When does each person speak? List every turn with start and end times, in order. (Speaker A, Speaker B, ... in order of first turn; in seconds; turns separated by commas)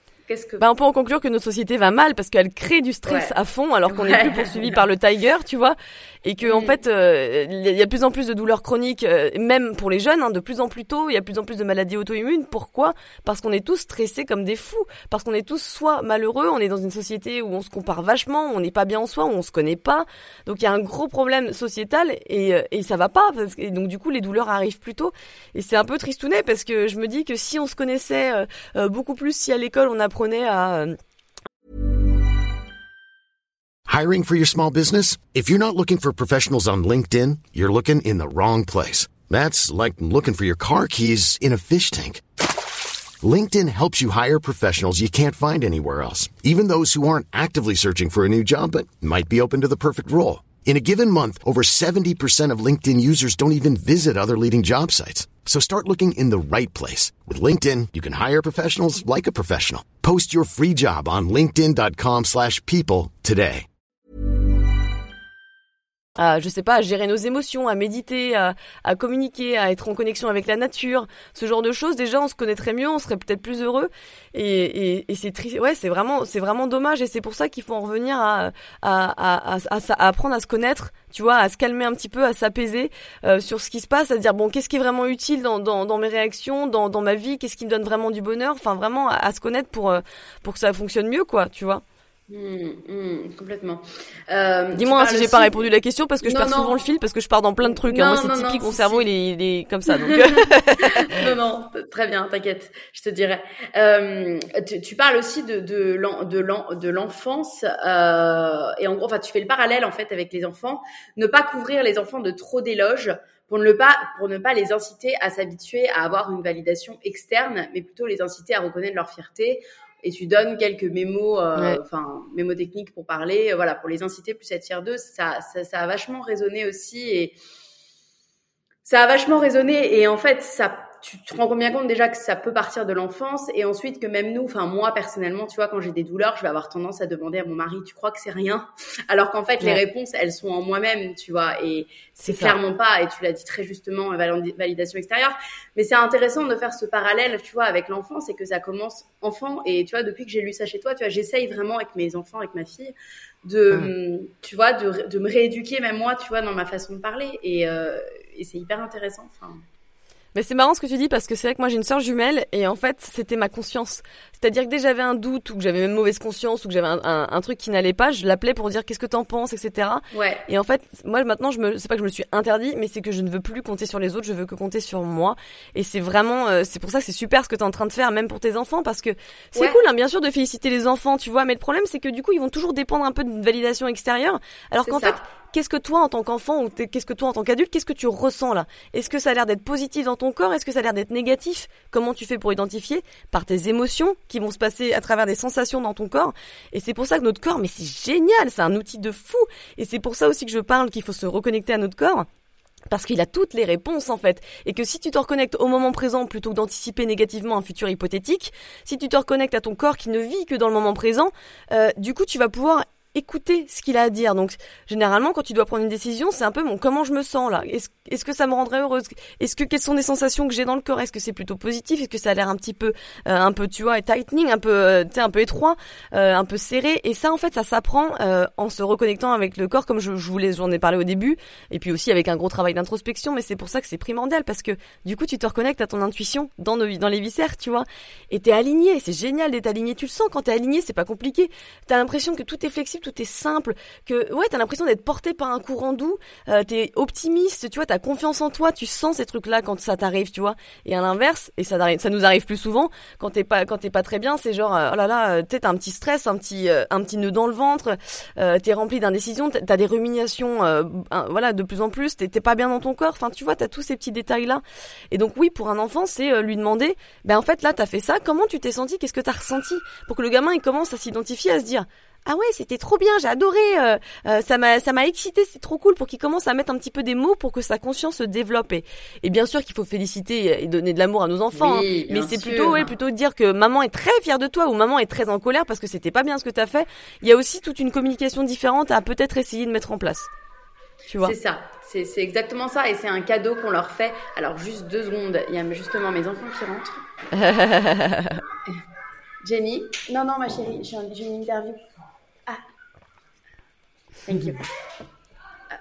Speaker A: 0.3-0.6, Speaker B: 0.6-30.9, Speaker A: 3.0-3.3, Speaker A: 3.9-4.8, Speaker A: 6.4-6.8, Speaker C: 33.9-42.2, Speaker C: 43.2-63.7, Speaker B: 66.2-91.8, Speaker A: 92.3-95.7, Speaker B: 94.7-101.2, Speaker A: 96.2-96.8, Speaker A: 97.6-99.1, Speaker A: 99.9-127.3, Speaker A: 128.8-159.6, Speaker B: 142.2-142.6, Speaker B: 160.3-202.3, Speaker A: 170.1-170.5, Speaker A: 179.6-179.8, Speaker A: 184.9-185.2, Speaker B: 202.9-290.3, Speaker A: 281.6-282.9, Speaker B: 291.1-291.4, Speaker A: 291.2-297.0, Speaker B: 297.3-298.4, Speaker A: 299.4-301.8, Speaker A: 304.3-304.6